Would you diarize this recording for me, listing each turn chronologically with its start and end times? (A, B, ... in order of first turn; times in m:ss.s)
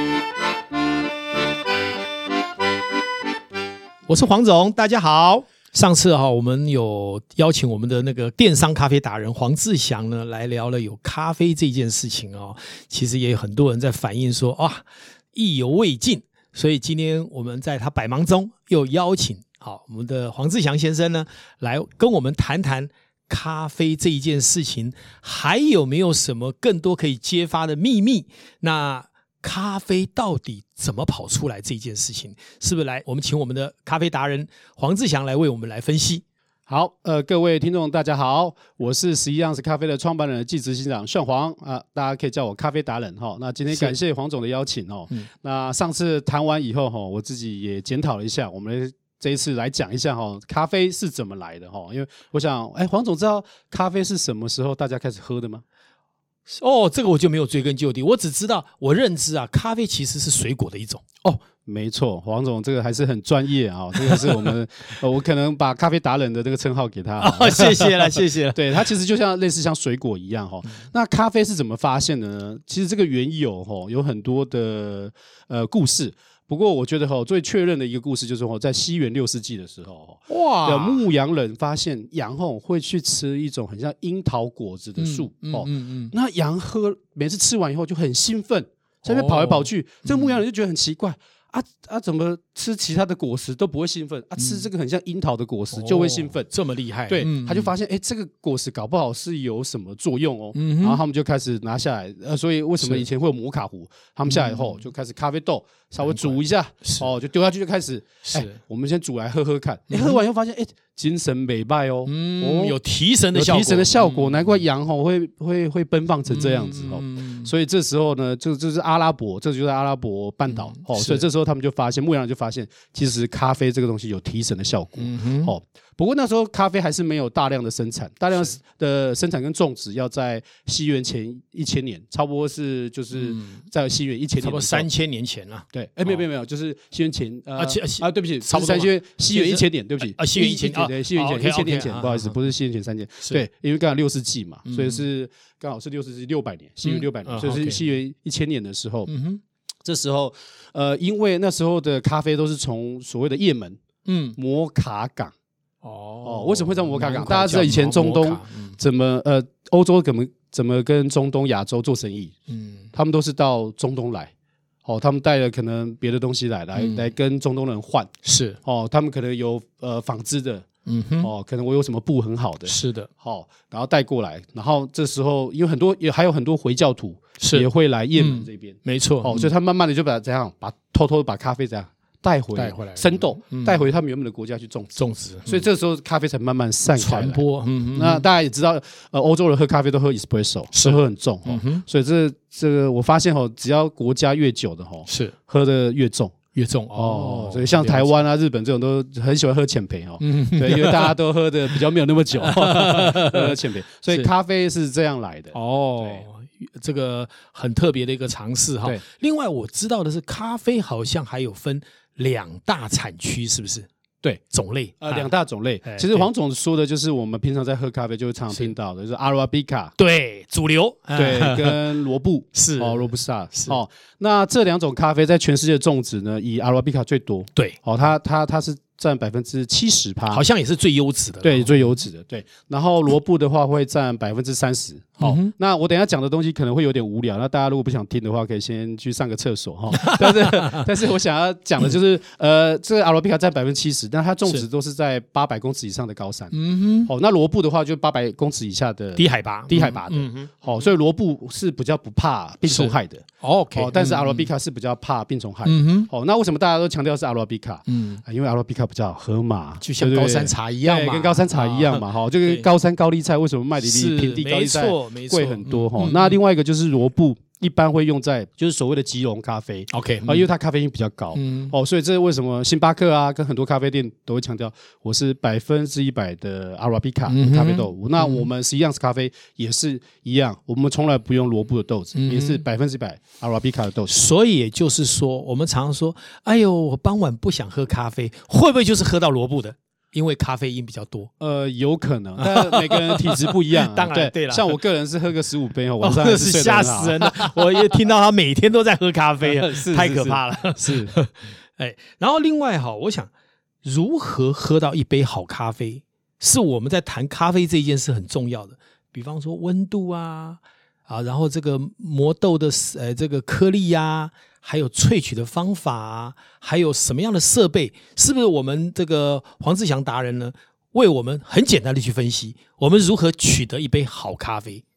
0:04.1-0:36.2 A
0:36.7-0:55.6 B
0:56.5-1:01.0 A
1:01.2-1:36.5 B
1:04.0-1:04.5 A
1:07.2-1:08.9 A
1:20.3-1:21.0 A
1:25.0-1:26.1 A
1:29.0-1:30.4 A
1:34.4-1:34.7 A
1:35.7-1:37.7 A
1:37.1-1:52.8 B
1:40.6-1:41.0 A
1:42.8-1:43.1 A
1:44.3-1:44.8 A
1:46.0-1:47.1 A
1:48.2-1:48.6 A
1:49.9-1:50.2 A
1:52.1-1:54.6 A
1:53.3-2:14.9 B
1:56.3-1:57.5 A
2:00.5-2:01.3 A
2:05.0-2:05.6 A
2:13.1-2:13.6 A
2:14.4-2:16.2 A
2:15.7-2:29.1 B
2:17.6-2:22.4 A
2:24.7-2:25.0 A
2:26.8-2:27.9 A
2:29.1-2:29.4 A
2:29.8-2:33.8 B
2:34.1-2:34.4 A
2:34.4-2:35.3 B
2:35.8-2:38.8 A
2:36.2-2:42.3 B
2:42.5-2:42.9 A
2:42.9-2:44.3 B
2:44.9-2:48.1 B
2:46.8-2:47.1 A
2:48.2-2:48.6 A
2:48.6-2:50.7 B
2:50.9-2:51.3 A
2:51.2-3:07.4 B
2:52.7-2:53.1 A
2:57.4-2:59.5 A
3:02.6-3:03.8 A
3:05.0-3:05.6 A
3:07.0-3:08.3 A
3:07.9-3:16.3 B
3:10.7-3:11.8 A
3:15.1-3:15.4 A
3:16.5-3:18.2 A
3:16.9-3:26.2 B
3:20.2-3:21.1 A
3:22.4-3:23.5 A
3:25.5-3:33.9 A
3:34.5-3:35.3 A
3:35.0-3:40.0 B
3:35.8-3:36.3 A
3:40.0-3:41.8 A
3:41.2-3:50.4 B
3:42.5-3:43.8 A
3:50.3-3:52.0 A
3:51.4-4:44.2 B
3:55.2-3:55.5 A
3:59.9-4:00.8 A
4:06.5-4:07.1 A
4:09.2-4:10.9 A
4:12.7-4:14.5 A
4:15.6-4:16.1 A
4:17.9-4:18.2 A
4:19.8-4:22.6 A
4:23.8-4:26.4 A
4:29.9-4:30.5 A
4:31.4-4:31.7 A
4:37.3-4:38.5 A
4:42.1-4:42.6 A
4:44.1-4:51.3 A
4:51.4-4:57.6 B
4:52.4-4:54.8 A
4:56.0-5:03.3 A
4:59.4-5:01.2 B
5:03.8-5:24.8 A